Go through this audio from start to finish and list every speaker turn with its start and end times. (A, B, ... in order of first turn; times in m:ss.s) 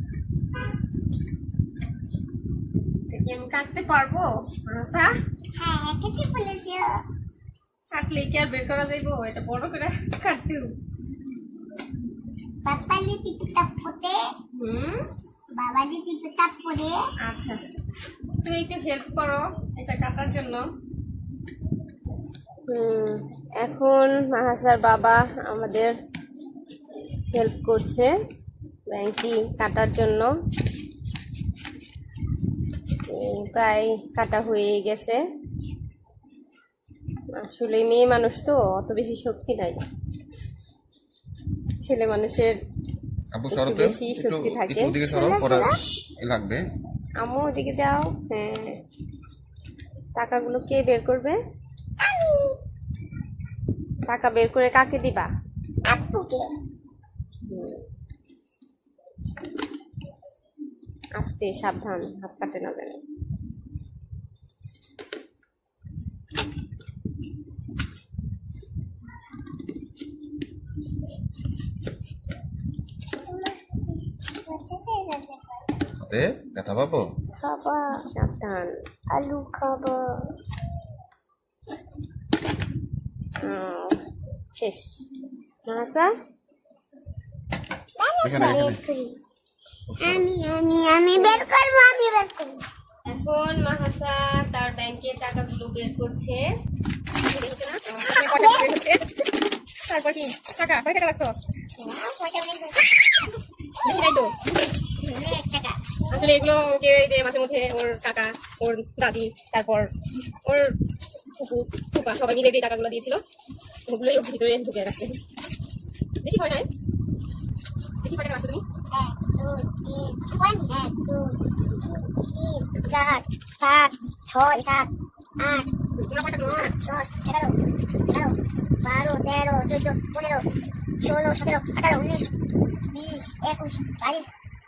0:03.1-0:05.1 A
0:05.6-0:07.0 B
0:07.9-0:10.7 A
0:12.6-0:14.2 B
0:14.5-0:15.0 A
0:15.5-0:17.0 B
0:17.2-0:17.6 A
0:18.4-0:20.7 A
0:22.7-0:25.9 A
0:27.3-0:28.1 A
0:28.9-0:30.3 A
0:33.1-0:35.2 A
0:37.4-0:39.8 A
0:41.8-0:42.6 A
0:43.3-0:46.6 C
0:43.5-0:44.9 A
0:45.1-0:45.8 B
0:47.2-0:48.8 A
0:50.2-0:51.4 A
0:52.0-0:52.6 B
0:54.1-0:55.3 A
0:55.8-0:56.5 B
0:57.5-0:57.8 A
1:01.2-1:03.0 A
1:13.3-1:15.6 B
1:16.0-1:17.1 C
1:17.4-1:18.1 B
1:18.1-1:18.8 A
1:19.1-1:20.2 B
1:23.4-1:24.0 A
1:24.5-1:25.1 A
1:25.6-1:26.1 A
1:28.0-1:29.2 B
1:28.2-1:28.8 C
1:29.9-1:30.2 C
1:30.0-1:32.6 B
1:31.2-1:31.4 A
1:33.1-1:36.4 A
1:37.3-1:39.0 A
1:38.0-1:38.7 B
1:39.9-1:41.3 A
1:41.8-1:43.2 B
1:43.8-1:44.2 B
1:43.8-1:44.3 A
1:45.0-1:46.3 B
1:46.1-1:49.9 A
1:50.5-1:50.7 A
1:51.4-1:53.2 A
1:53.9-1:55.1 A
1:56.2-1:56.6 A
1:58.0-1:58.6 A
1:58.9-2:01.4 B
2:02.2-2:05.6 B
2:06.0-2:06.7 A
2:06.4-2:07.5 B
2:08.1-2:10.4 B
2:11.0-2:12.3 B
2:12.9-2:14.3 B